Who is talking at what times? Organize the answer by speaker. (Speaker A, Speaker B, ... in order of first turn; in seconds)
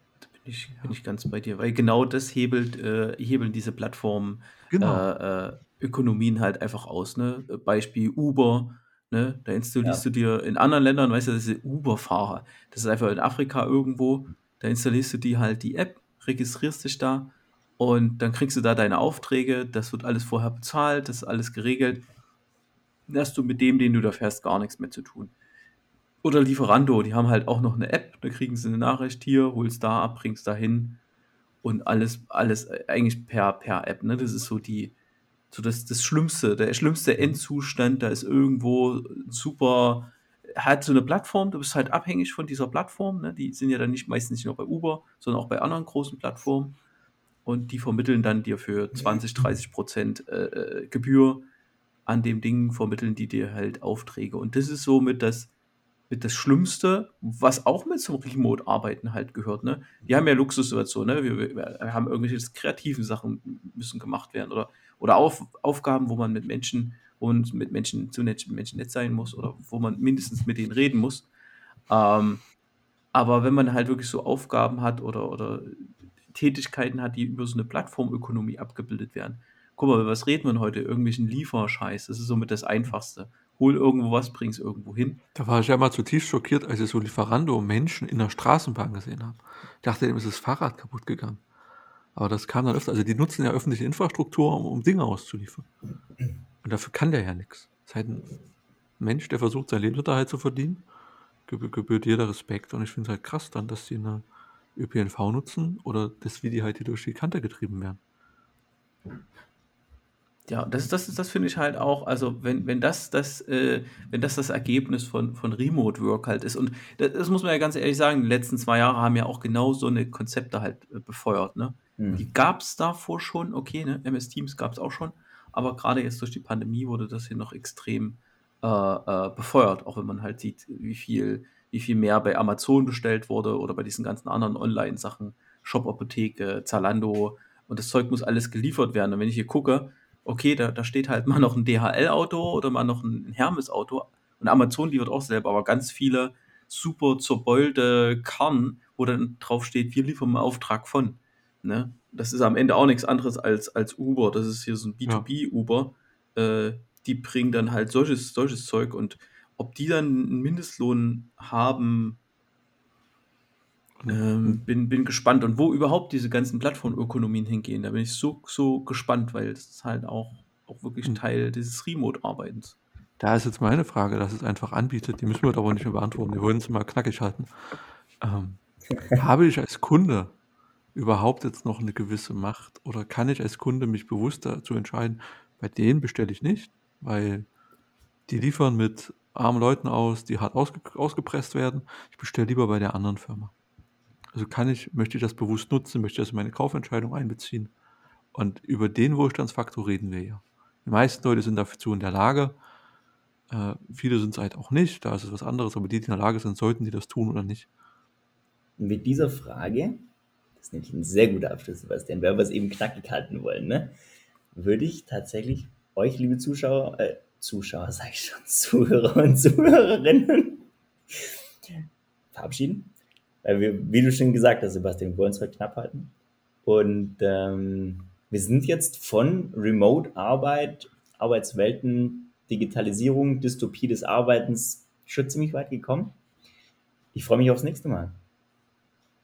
Speaker A: 0.4-22.1, 23.1-25.3, 26.2-31.0, 31.6-35.0, 35.5-46.8, 47.5-51.5, 52.1-55.5, 56.1-71.3, 71.9-72.4, 73.1-85.2, 110.5-162.2, 164.1-172.8
Speaker B: 4.7-5.1, 85.3-91.4, 92.2-95.7, 96.6-98.3, 99.0-100.8, 101.5-108.0, 164.0-164.6, 173.2-178.6, 179.1-180.3, 180.9-187.5, 188.3-193.5, 194.3-197.7, 198.3-202.6, 203.5-207.7
Speaker C: 122.0-122.3, 208.8-210.1, 210.6-214.0, 214.5-221.2, 222.3-222.9, 223.4-226.1, 226.7-236.2, 237.1-238.2